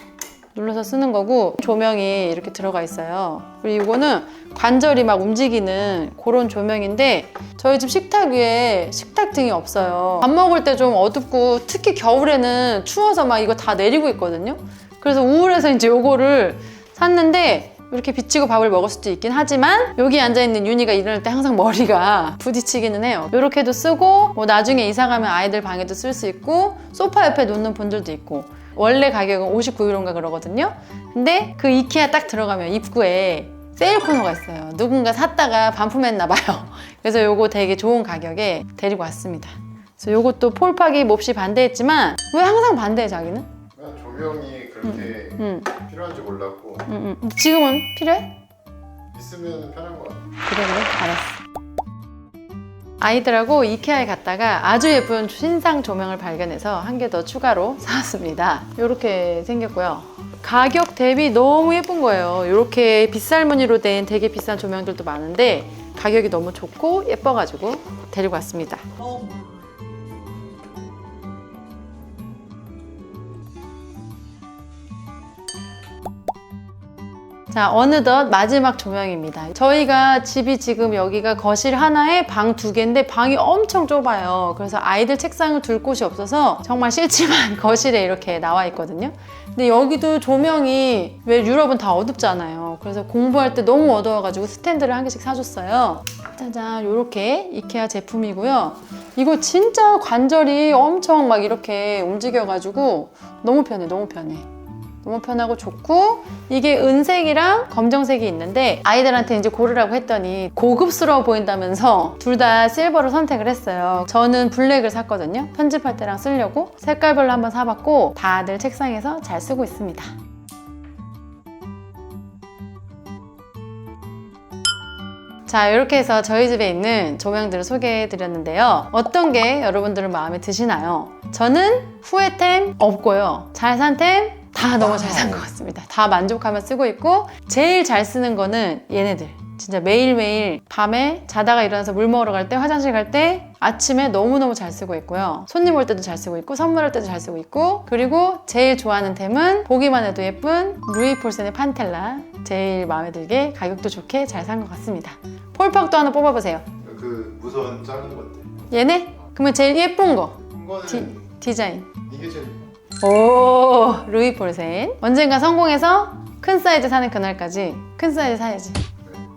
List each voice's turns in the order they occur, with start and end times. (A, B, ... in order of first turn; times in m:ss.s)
0:00.5-0:43.5 A
0:43.8-0:46.9 B
0:44.8-0:45.7 A
0:46.9-0:48.3 A
0:49.1-0:50.3 B
0:50.5-0:51.4 A
0:53.0-1:08.9 A
1:17.5-1:44.5 A
1:45.0-2:00.1 A
2:05.5-2:36.7 A
2:36.8-2:38.7 B
2:38.7-2:41.9 A
2:40.5-2:41.4 B
2:42.0-2:42.7 B
2:43.0-2:48.8 A